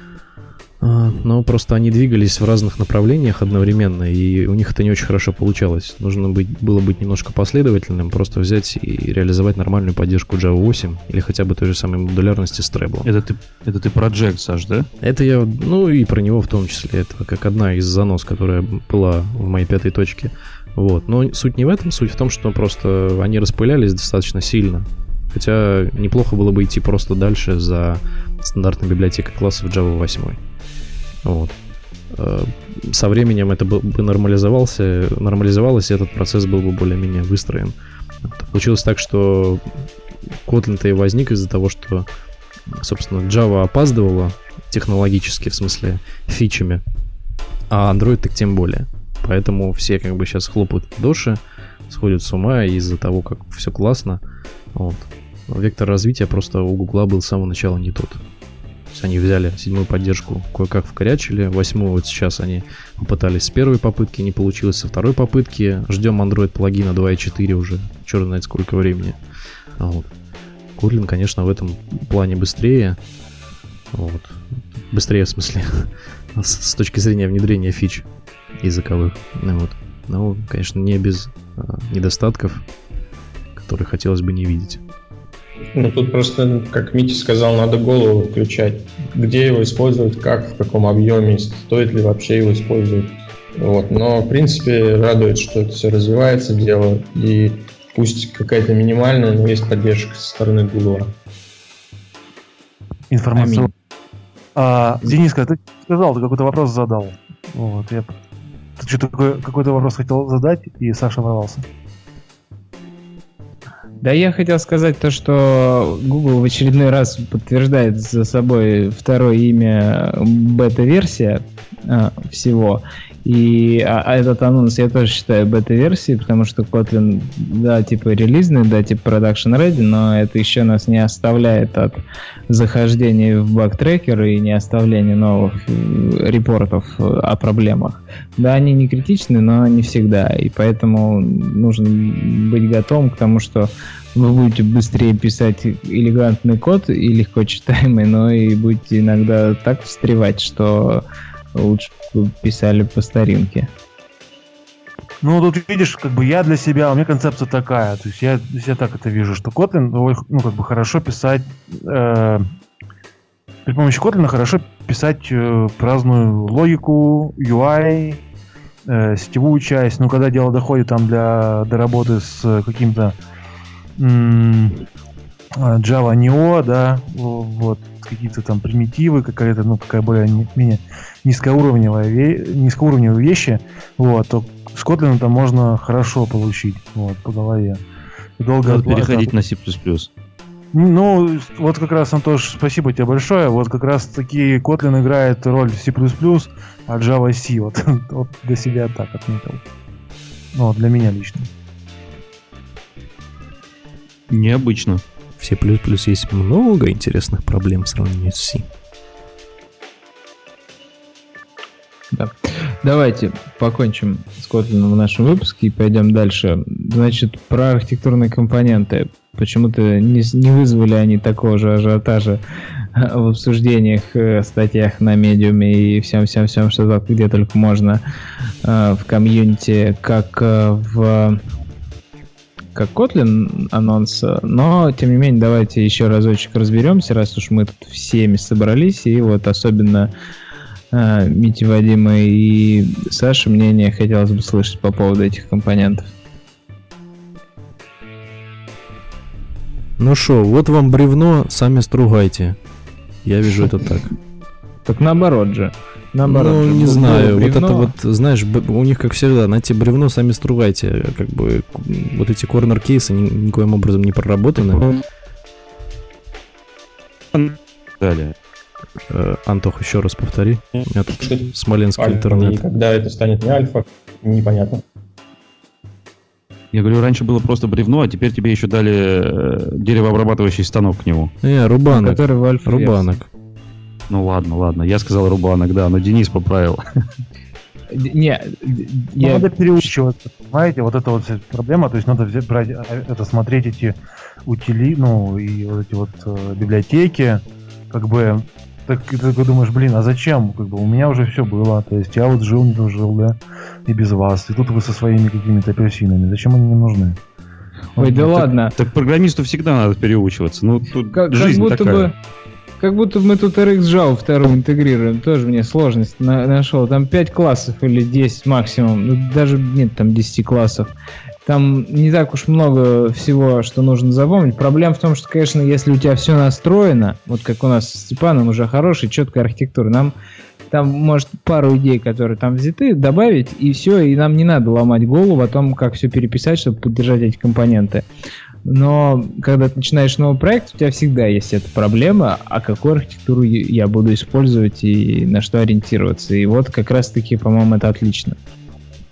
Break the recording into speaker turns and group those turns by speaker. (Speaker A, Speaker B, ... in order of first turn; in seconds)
Speaker A: 0.8-13.1, 15.0-30.4, 31.2-31.5, 32.1-39.6, 40.4-42.1, 42.7-46.8, 47.7-54.2, 54.7-58.2, 58.9-69.2, 69.8-70.1, 70.8-73.0, 73.9-78.1, 78.6-82.7, 83.5-84.8, 205.4-208.7, 250.0-252.6, 253.2-254.1, 256.2-265.0, 269.1-272.6, 281.4-283.3
Speaker B: 13.0-14.9, 188.6-190.1, 204.3-205.0, 267.3-268.3, 276.7-281.3, 284.1-286.8, 308.7-312.1
Speaker C: 85.7-101.1, 271.1-274.8
Speaker D: 103.1-103.7, 104.5-108.1, 108.8-111.7, 155.2-162.4, 163.7-168.2, 168.8-173.2, 174.0-174.9, 175.6-187.8, 188.4-189.3, 190.7-199.6, 200.5-201.5, 289.2-307.2, 308.0-308.5
Speaker E: 103.3-103.7, 114.0-153.7, 212.1-222.4, 222.9-228.0, 228.6-231.4, 232.7-240.1, 240.9-246.1, 254.8-257.9, 281.9-283.2, 287.9-289.9, 307.9-308.7, 311.1-312.1, 312.8-320.9, 321.4-330.1, 330.7-338.1, 338.6-348.4